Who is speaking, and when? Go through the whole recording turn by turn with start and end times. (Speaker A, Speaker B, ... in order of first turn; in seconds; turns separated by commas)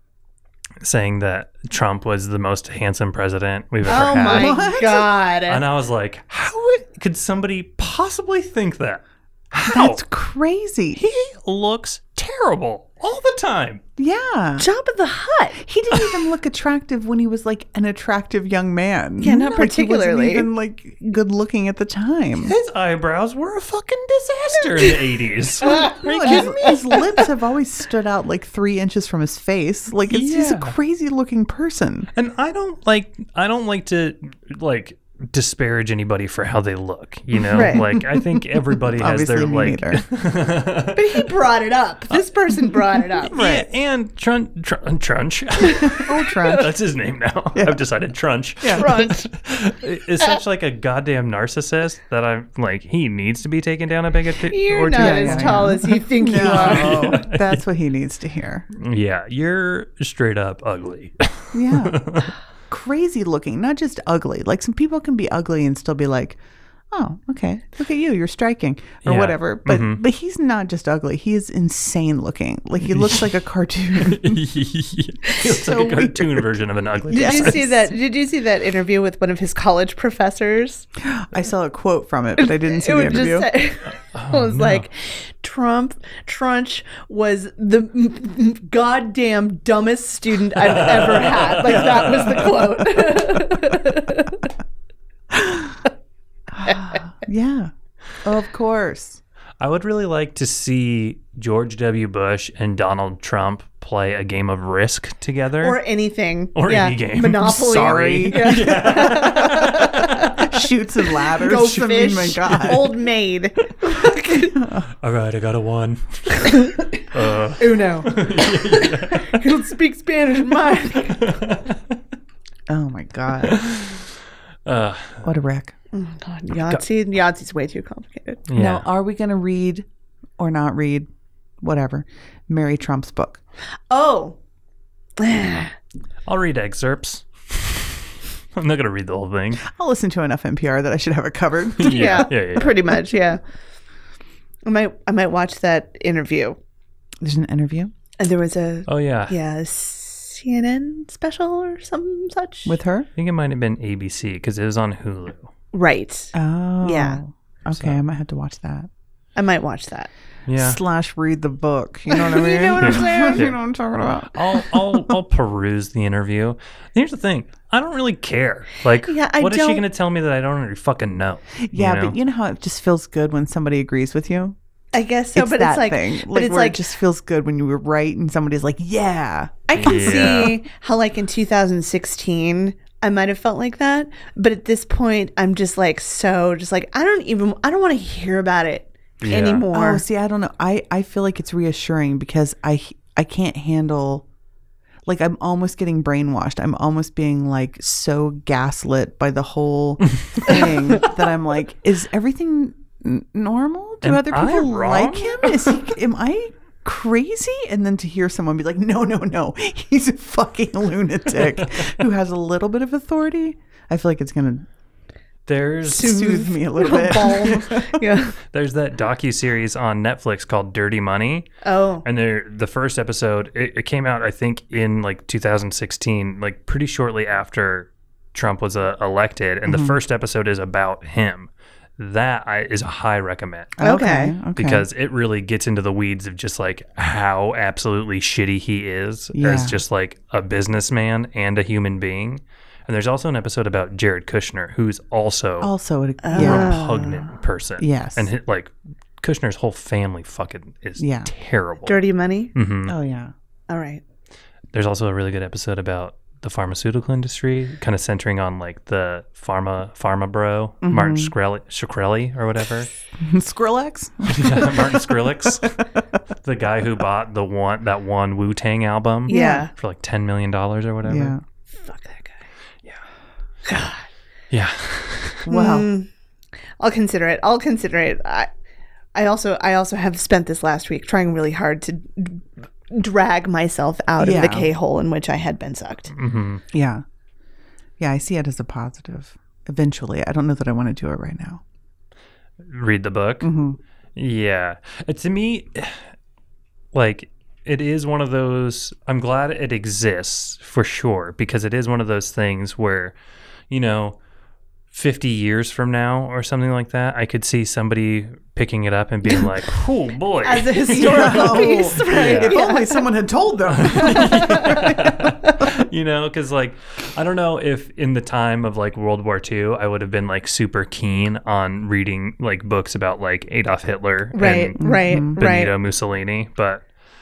Speaker A: 0.8-4.5, Speaker B: 3.9-5.6, Speaker C: 4.2-5.1, Speaker A: 5.5-10.0, Speaker C: 9.7-11.0, Speaker A: 10.9-13.8, Speaker C: 14.0-14.7, Speaker B: 14.6-15.6, Speaker C: 15.6-22.5, Speaker B: 19.2-20.5, Speaker A: 22.4-26.7, Speaker B: 25.6-27.0, Speaker C: 25.8-32.1, Speaker A: 30.1-30.7, Speaker A: 32.1-41.1, Speaker C: 37.5-40.0, Speaker B: 37.5-37.8, Speaker B: 40.9-43.3, Speaker C: 43.2-43.7, Speaker A: 43.3-57.6, Speaker C: 45.8-46.7, Speaker C: 47.5-47.8, Speaker C: 48.6-48.9, Speaker B: 48.8-49.3, Speaker B: 54.5-57.0, Speaker C: 54.9-58.7, Speaker A: 58.7-62.3, Speaker C: 61.5-62.1, Speaker C: 62.7-66.4, Speaker C: 66.9-74.4, Speaker A: 69.0-70.0, Speaker A: 72.9-73.3, Speaker A: 74.0-77.6, Speaker C: 75.4-76.5, Speaker C: 77.1-77.9, Speaker B: 77.1-80.8, Speaker C: 81.0-83.5, Speaker B: 82.4-94.4, Speaker A: 84.1-84.8, Speaker A: 90.6-92.6, Speaker C: 95.3-95.8, Speaker C: 96.5-97.7, Speaker B: 96.7-96.9, Speaker C: 98.2-99.2, Speaker A: 99.6-105.8, Speaker B: 105.6-110.4, Speaker A: 106.5-110.3, Speaker C: 107.4-112.9, Speaker B: 111.4-114.5, Speaker C: 114.5-114.9, Speaker A: 115.0-119.6, Speaker B: 116.4-116.8, Speaker B: 117.6-121.2, Speaker A: 121.0-122.0, Speaker C: 122.7-123.8, Speaker A: 123.4-124.0, Speaker A: 124.7-125.3, Speaker C: 125.2-125.7, Speaker B: 125.9-128.4, Speaker A: 128.5-128.8, Speaker C: 128.5-129.8, Speaker C: 130.4-131.1, Speaker C: 131.6-133.4, Speaker B: 133.9-134.3, Speaker B: 135.2-135.7, Speaker A: 136.2-137.9, Speaker A: 138.5-139.6, Speaker C: 139.6-142.3, Speaker A: 141.8-142.8, Speaker B: 141.8-143.4, Speaker B: 144.6-146.6, Speaker C: 147.2-147.9, Speaker B: 148.2-152.8, Speaker A: 148.9-149.3, Speaker C: 152.6-153.1, Speaker A: 153.2-155.5, Speaker B: 155.7-157.2, Speaker C: 156.3-158.9, Speaker A: 157.7-158.0, Speaker B: 159.3-160.1, Speaker A: 160.5-160.8, Speaker C: 160.6-165.2, Speaker B: 162.1-163.5, Speaker A: 162.8-163.6, Speaker A: 164.3-172.1, Speaker B: 169.1-169.8, Speaker C: 171.6-174.6, Speaker B: 174.9-176.8, Speaker C: 175.3-180.5, Speaker B: 179.7-190.0, Speaker A: 179.8-180.6, Speaker A: 189.2-189.7, Speaker C: 189.7-194.2, Speaker C: 195.1-214.7, Speaker A: 204.0-205.9, Speaker A: 211.6-211.8, Speaker A: 215.5-216.2, Speaker C: 215.9-218.0, Speaker B: 215.9-218.3, Speaker A: 218.5-221.5, Speaker B: 221.6-222.0, Speaker A: 222.0-233.8, Speaker C: 229.7-229.9, Speaker C: 233.8-234.8, Speaker B: 233.8-234.3, Speaker A: 234.6-245.7, Speaker C: 239.3-239.8, Speaker C: 245.6-246.8, Speaker B: 246.2-247.3, Speaker A: 246.3-251.9, Speaker C: 247.8-248.3, Speaker C: 251.0-251.3, Speaker B: 251.8-252.5, Speaker A: 252.5-252.9, Speaker C: 252.9-253.3, Speaker B: 253.7-254.0, Speaker A: 254.7-262.9, Speaker C: 260.8-261.3, Speaker C: 263.2-266.1, Speaker A: 264.3-265.7, Speaker A: 266.4-271.3, Speaker C: 269.3-269.6, Speaker B: 269.3-269.7, Speaker C: 271.0-271.4, Speaker B: 271.8-272.4, Speaker B: 273.6-274.1, Speaker A: 274.5-275.4, Speaker C: 275.4-275.9, Speaker B: 275.5-276.1, Speaker B: 276.8-278.5, Speaker B: 279.1-286.1, Speaker C: 284.2-284.7, Speaker A: 286.1-286.6, Speaker C: 286.7-287.0, Speaker C: 288.0-291.6, Speaker A: 292.6-293.5, Speaker C: 293.4-293.8, Speaker A: 294.1-296.1, Speaker A: 296.9-303.1, Speaker A: 303.7-304.2, Speaker A: 304.9-312.6, Speaker B: 310.4-313.0, Speaker C: 310.9-315.1, Speaker A: 313.7-326.9, Speaker B: 314.1-314.7, Speaker B: 324.3-325.7, Speaker C: 324.8-325.4